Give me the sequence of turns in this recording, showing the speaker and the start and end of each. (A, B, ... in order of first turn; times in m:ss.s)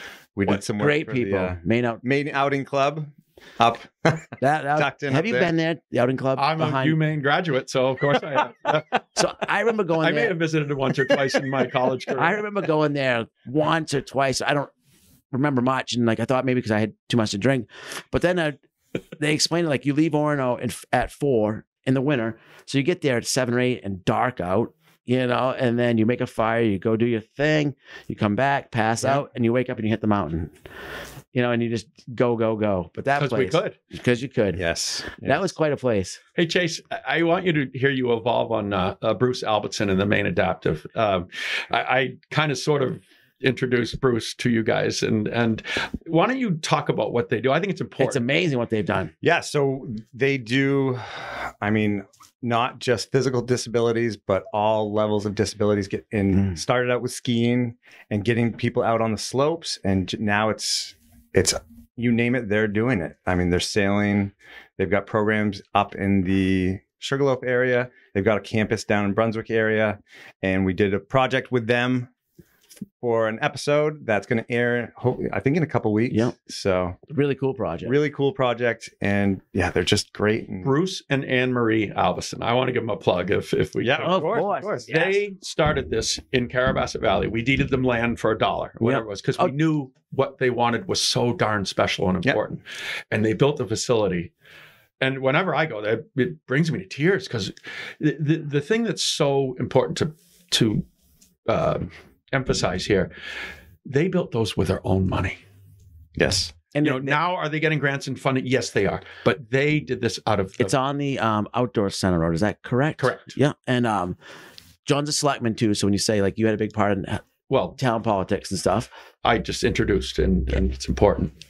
0:00.3-0:05.5 A
0:00.5-0:02.0 B
0:04.4-0:07.0 B
0:06.4-0:08.9 C
0:09.2-0:10.4 B
0:10.0-0:12.4 C
0:12.2-0:14.7 B
0:15.3-0:18.6 B
0:19.2-0:30.5 B
0:31.3-0:34.6 B
0:33.2-0:33.8 C
0:34.6-0:35.5 A
0:35.2-0:36.2 B
0:36.4-0:48.2 C
0:48.0-0:49.1 B
0:49.2-1:12.1 A
1:13.0-1:17.0 A
1:17.1-1:17.9 B
1:17.8-1:20.7 A
1:20.6-1:34.3 C
1:23.8-1:25.2 A
1:24.0-1:25.0 B
1:28.8-1:29.5 B
1:35.0-1:40.8 C
1:41.4-1:43.1 C
1:43.8-1:45.4 C
1:46.2-1:46.5 A
1:46.7-1:47.2 B
1:46.8-1:50.7 C
1:50.6-1:54.2 B
1:53.0-1:53.3 C
1:54.8-1:57.2 B
1:57.5-1:57.8 C
1:57.8-1:58.9 B
1:59.2-2:01.3 C